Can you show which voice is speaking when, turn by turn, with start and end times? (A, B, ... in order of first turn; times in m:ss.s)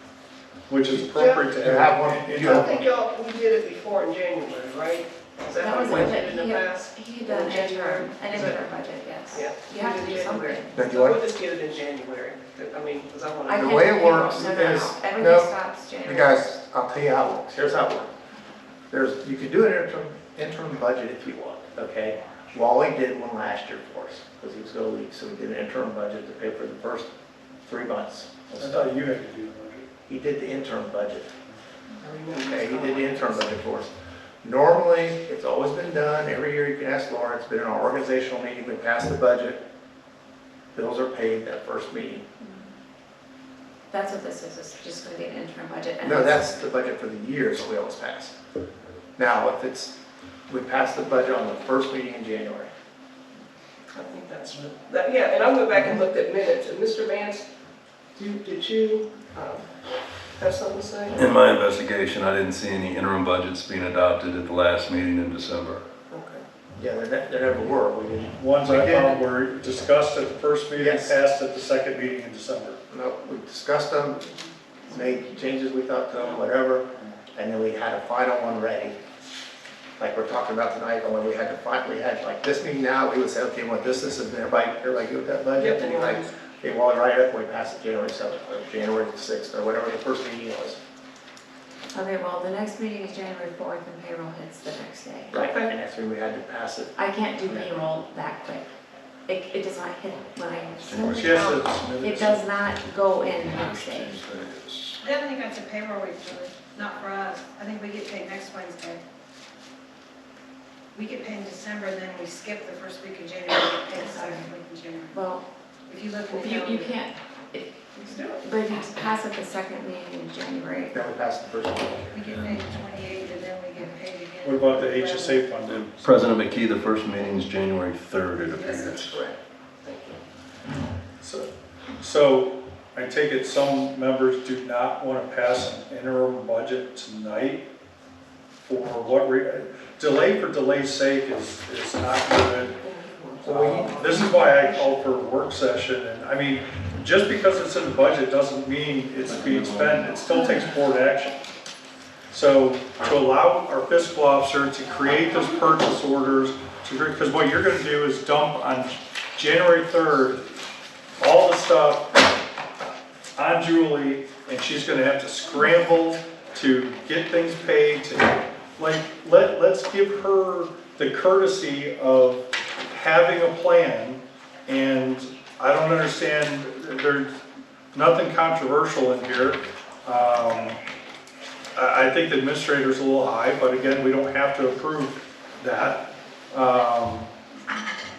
0:00.7-0:02.8 A
0:00.9-0:01.5 B
0:01.6-0:02.8 C
0:02.4-0:08.6 B
0:05.6-0:10.7 D
0:09.3-0:13.9 B
0:10.7-0:11.2 C
0:13.5-0:16.5 D
0:13.5-0:15.5 C
0:16.0-0:18.1 C
0:18.9-0:27.1 C
0:27.6-0:28.9 C
0:28.6-0:29.9 A
0:30.1-0:31.3 C
0:32.0-0:33.5 B
0:32.4-0:33.9 C
0:34.4-0:39.6 C
0:40.7-0:42.2 C
0:43.9-0:46.6 D
0:46.0-0:48.3 C
0:49.2-0:49.9 C
0:50.5-0:52.7 C
0:53.9-0:57.4 B
0:58.2-0:59.6 B
1:00.4-1:01.2 B
1:01.2-1:05.8 E
1:06.1-1:06.4 B
1:06.8-1:09.2 C
1:08.4-1:12.8 A
1:10.7-1:11.2 C
1:12.9-1:14.2 C
1:14.9-1:19.0 C
1:20.0-1:30.8 C
1:25.6-1:26.3 B
1:31.9-1:35.3 D
1:35.3-1:37.7 C
1:35.4-1:35.7 B
1:37.0-1:38.6 D
1:39.3-1:44.2 D
1:40.8-1:41.4 E
1:41.1-1:42.4 A
1:43.4-1:45.0 E
1:45.0-1:49.0 F
1:50.9-1:55.2 F
1:54.0-1:54.4 D
1:55.1-1:55.4 D
1:55.9-1:57.0 F
1:56.3-2:01.0 D
1:58.1-1:58.4 B
2:00.9-2:02.2 C
2:02.1-2:05.5 F
2:04.4-2:06.1 A
2:05.6-2:09.2 E
2:08.6-2:08.9 F
2:08.6-2:10.2 B
2:11.2-2:17.7 A
2:18.6-2:22.8 A
2:22.7-2:24.9 B
2:23.4-2:31.4 A
2:23.5-2:24.1 C
2:32.3-2:40.4 A
2:41.2-2:42.2 A
2:43.4-2:57.3 A
2:57.9-3:00.8 A
3:01.7-3:07.3 A